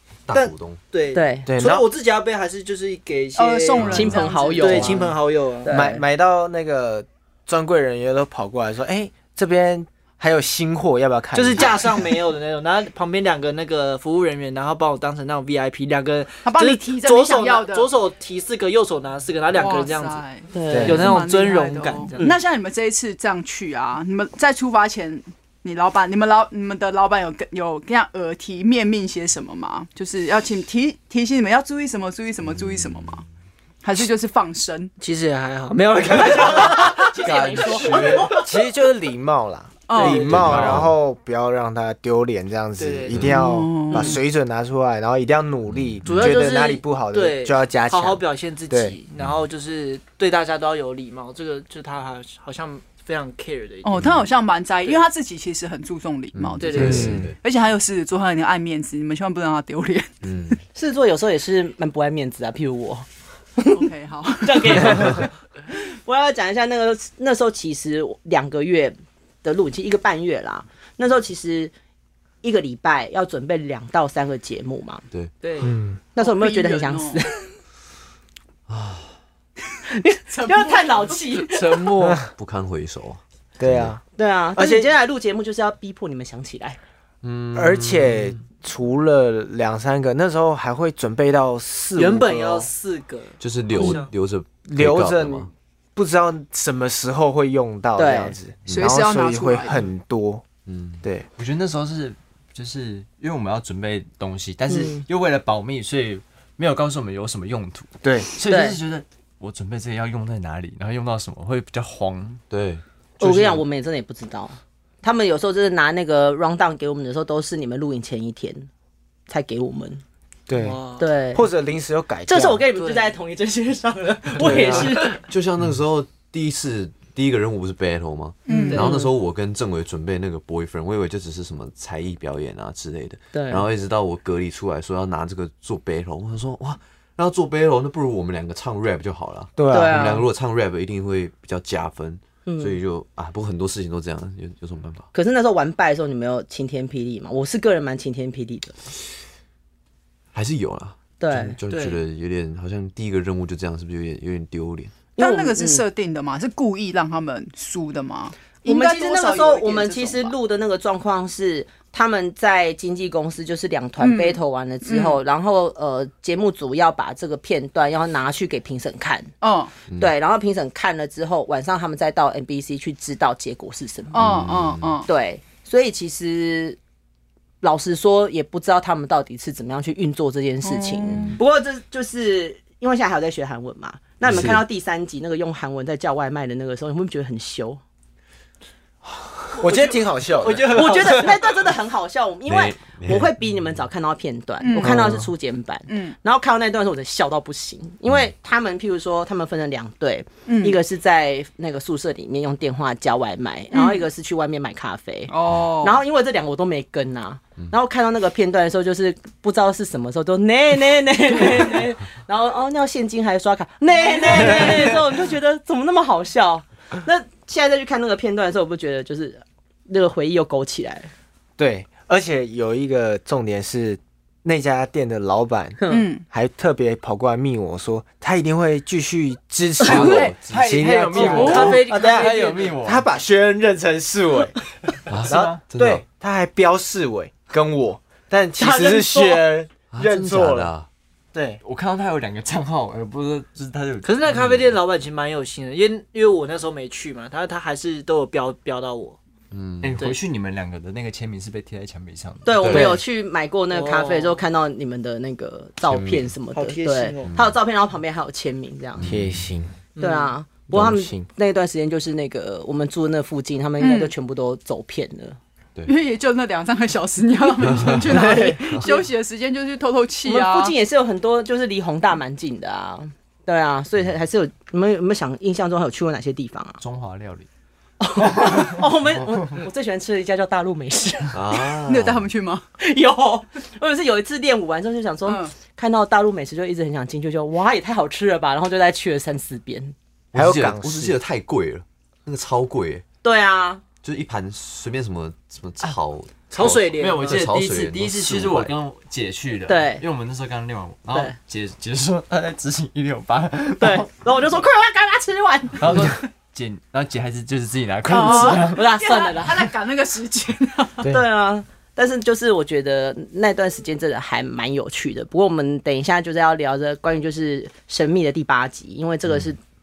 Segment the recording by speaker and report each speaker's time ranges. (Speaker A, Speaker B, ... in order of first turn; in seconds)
Speaker A: 0.3-0.8, 32.6-33.1, 40.3-41.0, 49.2-49.4, 56.3-57.4, 60.2-60.6, 78.7-79.2, 82.3-83.9, 87.2-88.4, 93.4-95.5, 98.7-99.0, 100.7-101.0, 112.5-112.8, 125.0-145.1, 150.3-154.9, 174.2-175.0, 181.1-181.4, 184.2-184.6, 192.4-193.8, 229.8-230.6, 235.1-236.0, 239.9-240.9, 249.5-249.9, 252.6-253.0, 255.8-256.3, 259.0-259.5, 267.7-268.0, 281.3-282.3, 290.3-293.0, 294.0-298.7
Speaker B: 0.3-5.7, 11.3-20.2, 20.8-22.3, 35.0-37.0, 39.9-40.6, 42.8-43.4, 46.0-54.2, 56.6-57.1, 81.5-82.2, 92.0-94.1, 120.6-121.1, 122.7-123.2, 124.4-124.9, 128.5-129.1, 151.7-152.0, 189.6-191.7, 231.1-232.8, 244.0-249.2, 253.7-254.4, 256.5-257.3, 259.9-260.3, 296.5-297.4
Speaker C: 1.1-1.5, 3.8-6.0, 20.5-21.2, 36.0-38.4, 60.7-63.0, 63.6-63.8, 64.4-71.7, 72.4-75.0, 76.2-77.4, 79.9-81.9, 84.2-86.8, 98.0-98.3, 104.7-105.0, 108.4-108.8, 113.2-118.7, 119.3-120.0, 121.0-121.5, 122.3-125.2, 128.6-129.1, 133.3-133.6, 139.7-140.3, 142.4-142.8, 145.1-148.8, 151.2-151.6, 155.2-155.8, 158.6-169.3, 169.9-174.5, 175.1-176.8, 177.6-187.8, 190.7-221.1, 225.8-226.1, 238.6-239.4, 252.4-259.1, 260.0-265.4, 268.3-269.0, 270.2-276.8, 278.0-281.4, 282.8-289.9, 293.2-293.8, 299.6-300.0, 303.8-306.1, 308.2-309.7, 311.1-319.6
Speaker D: 1.5-1.8, 5.7-12.1, 20.7-21.0, 37.3-49.0, 56.8-57.3, 75.6-76.0, 83.6-84.0, 84.5-84.9, 87.5-92.7, 94.6-100.4, 108.0-108.3, 120.5-120.8, 121.3-122.7, 124.4-125.0, 139.6-140.1, 184.2-184.6, 189.1-191.2, 194.8-195.3, 221.6-234.6, 235.2-240.7, 241.3-241.6, 252.7-253.0, 259.0-259.7, 260.7-261.3, 268.1-268.6, 290.3-291.1
Speaker E: 3.4-5.1, 16.4-17.9, 19.5-33.2, 33.8-34.9, 39.9-40.3, 43.3-44.2, 53.8-60.6, 63.7-65.3, 76.2-77.3, 80.3-81.2, 98.7-99.9, 128.4-128.9, 155.2-160.3, 164.0-165.2, 169.4-169.7, 174.1-175.1, 180.6-181.4, 194.6-195.1, 195.9-196.2, 200.4-200.8, 203.7-204.1, 205.3-206.0, 225.9-226.2, 263.8-264.1, 265.8-270.8, 281.8-282.6, 285.2-285.6, 308.1-311.0
Speaker F: 37.3-38.3, 40.3-40.8, 101.4-112.4, 229.9-233.1, 235.1-235.6, 241.6-244.5, 249.8-252.8, 276.8-277.5, 296.6-304.0, 305.8-308.8